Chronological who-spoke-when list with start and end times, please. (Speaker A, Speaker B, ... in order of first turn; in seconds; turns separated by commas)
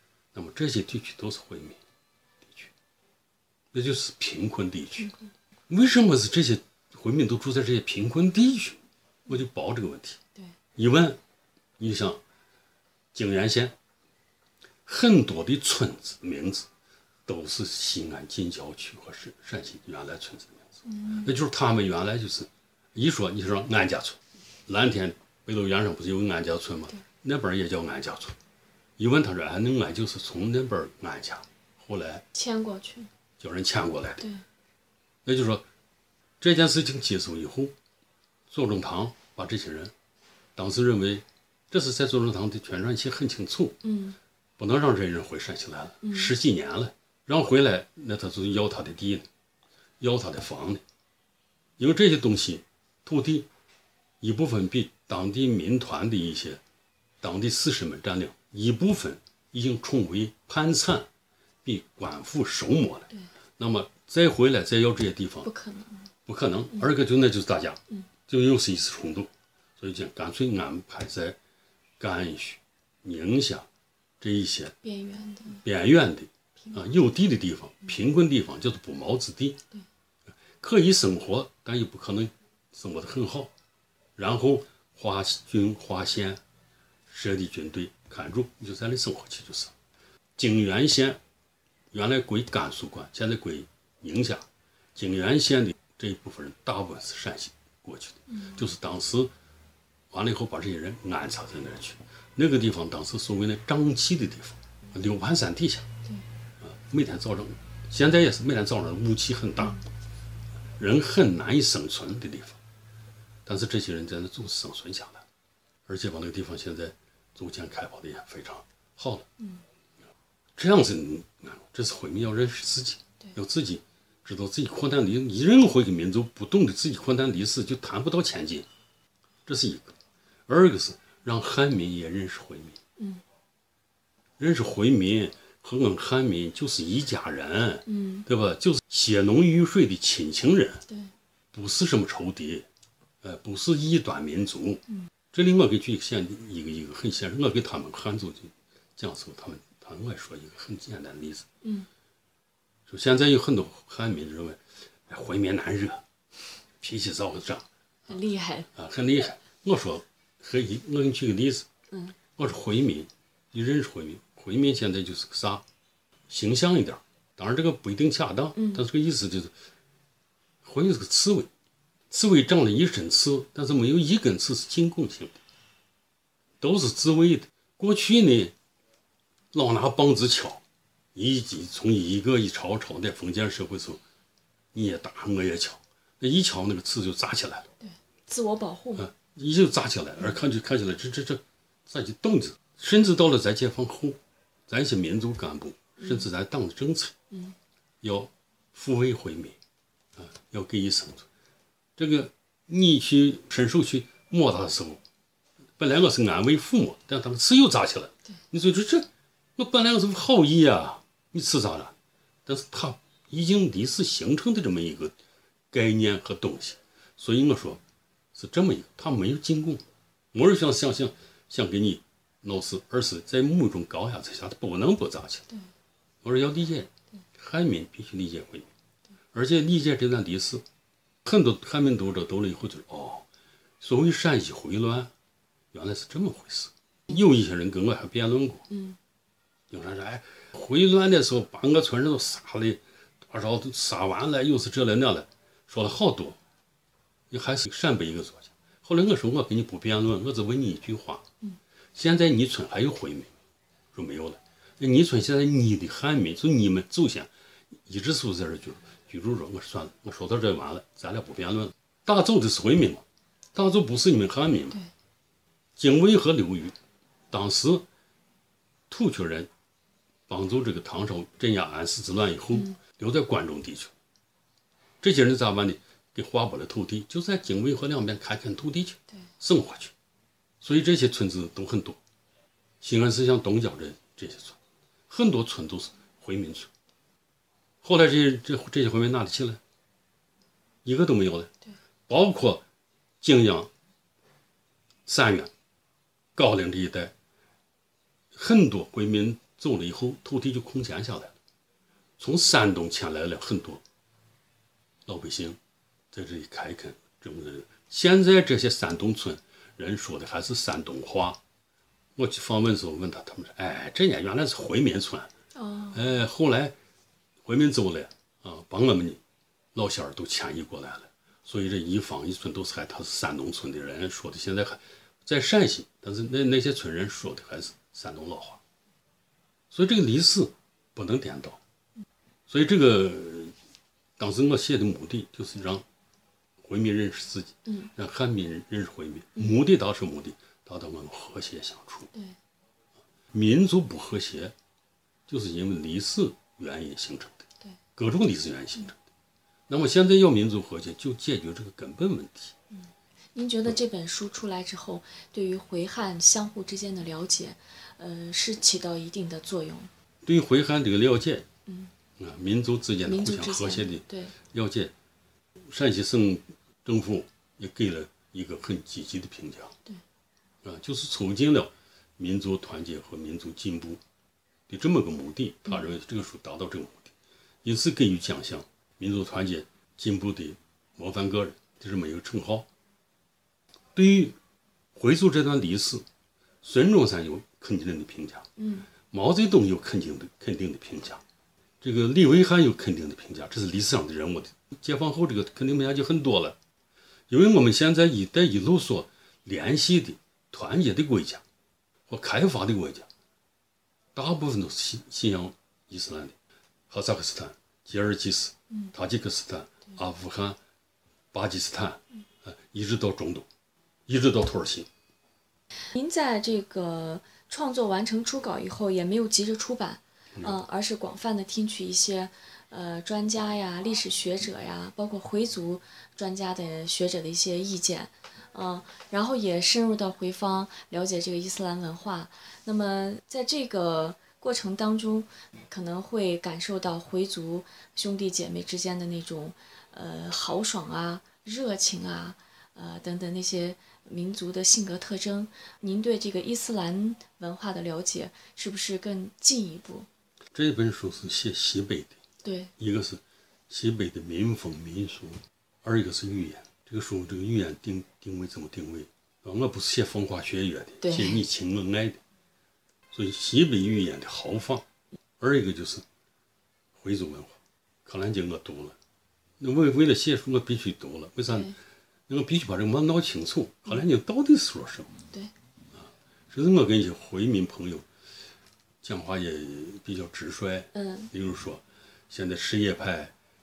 Speaker A: 0.3-1.8, Speaker A: 2.4-2.7, Speaker A: 3.7-5.1, Speaker B: 5.0-5.2, Speaker A: 5.7-10.2, Speaker A: 10.8-11.2, Speaker A: 11.8-12.2, Speaker A: 13.1-13.8, Speaker A: 14.9-16.7, Speaker A: 17.3-28.4, Speaker B: 20.9-21.3, Speaker A: 29.0-32.2, Speaker B: 32.3-33.1, Speaker A: 33.4-34.3, Speaker A: 35.2-35.6, Speaker A: 36.4-37.8, Speaker A: 38.5-39.9, Speaker A: 40.6-43.8, Speaker B: 43.8-44.2, Speaker A: 44.6-49.3, Speaker B: 46.0-46.3, Speaker A: 50.0-50.8, Speaker A: 51.8-53.5, Speaker A: 54.2-56.6, Speaker A: 57.2-61.1, Speaker A: 61.6-65.5, Speaker B: 65.4-66.1, Speaker A: 66.3-71.4, Speaker A: 72.0-73.7, Speaker A: 74.2-74.8, Speaker B: 74.8-75.6, Speaker A: 75.6-79.6, Speaker A: 80.6-83.5, Speaker A: 84.2-86.4, Speaker A: 87.1-89.7, Speaker A: 90.4-91.2, Speaker A: 91.9-99.3, Speaker B: 98.3-98.6, Speaker A: 100.1-105.9, Speaker A: 106.6-109.8, Speaker A: 110.8-112.6, Speaker A: 113.5-115.2, Speaker A: 115.9-119.3, Speaker A: 120.6-128.7, Speaker A: 129.5-130.0, Speaker A: 130.5-132.8, Speaker A: 134.4-140.8, Speaker B: 137.9-138.3, Speaker A: 141.5-142.7, Speaker A: 143.2-151.5, Speaker A: 152.9-156.0, Speaker A: 156.8-158.1, Speaker B: 158.1-158.7, Speaker A: 158.8-161.7, Speaker A: 162.4-165.6, Speaker A: 166.3-169.5, Speaker B: 168.6-168.8, Speaker A: 170.6-171.5, Speaker A: 172.1-175.4, Speaker A: 176.6-178.6, Speaker A: 179.5-180.6, Speaker A: 181.2-184.0, Speaker A: 184.7-187.7, Speaker B: 187.8-189.1, Speaker A: 189.0-197.1, Speaker B: 196.0-196.3, Speaker A: 198.0-199.6, Speaker A: 200.2-201.3, Speaker A: 202.0-205.0, Speaker A: 205.8-211.9, Speaker A: 212.5-215.2, Speaker A: 215.7-217.8, Speaker A: 218.3-225.5, Speaker A: 226.2-228.7, Speaker A: 229.3-230.7, Speaker A: 231.2-233.3, Speaker A: 233.8-235.1, Speaker A: 235.7-238.7, Speaker B: 238.7-239.0, Speaker A: 239.7-246.4, Speaker A: 247.3-251.3, Speaker A: 251.9-253.3, Speaker A: 253.9-257.3, Speaker A: 257.9-264.8, Speaker A: 265.8-266.8, Speaker A: 267.3-267.9, Speaker A: 268.9-269.5, Speaker A: 270.3-273.9, Speaker A: 275.0-279.9, Speaker A: 280.6-282.0, Speaker A: 282.8-284.6, Speaker A: 285.1-286.7, Speaker A: 287.8-289.6, Speaker A: 290.8-291.5, Speaker A: 292.1-292.6, Speaker A: 293.2-293.7, Speaker A: 295.1-295.5, Speaker A: 296.4-297.1, Speaker A: 298.3-301.4, Speaker A: 302.2-303.8, Speaker A: 305.1-305.6, Speaker A: 306.1-311.4, Speaker A: 312.2-315.3, Speaker B: 315.6-316.0, Speaker A: 315.9-316.8, Speaker A: 317.4-319.2, Speaker A: 319.7-328.6, Speaker A: 329.7-331.6, Speaker A: 332.5-333.5, Speaker A: 334.2-335.9, Speaker A: 336.6-342.1, Speaker A: 343.3-344.6, Speaker A: 345.3-347.4, Speaker A: 348.0-349.0, Speaker A: 349.7-352.6, Speaker B: 353.4-359.9, Speaker A: 360.2-361.5, Speaker A: 362.2-364.9, Speaker B: 363.1-364.4, Speaker A: 365.7-369.8, Speaker A: 370.6-374.0, Speaker A: 374.7-377.1, Speaker A: 377.6-382.7, Speaker A: 383.9-384.4, Speaker A: 384.9-386.1, Speaker A: 386.6-388.5, Speaker B: 388.6-388.9, Speaker A: 389.0-391.2, Speaker A: 391.8-396.6, Speaker A: 397.3-401.4, Speaker A: 402.1-403.1, Speaker A: 404.1-406.4, Speaker A: 406.9-410.6, Speaker A: 411.3-413.5, Speaker A: 414.1-414.9, Speaker B: 415.9-450.1, Speaker A: 450.5-452.2, Speaker B: 452.4-452.7, Speaker A: 452.8-462.2, Speaker B: 461.0-461.4, Speaker A: 463.1-464.9, Speaker A: 465.4-466.1, Speaker A: 466.9-469.0, Speaker A: 469.6-471.7, Speaker B: 471.5-471.8, Speaker A: 472.3-475.1, Speaker A: 475.9-478.1, Speaker A: 479.0-483.3, Speaker B: 480.9-481.3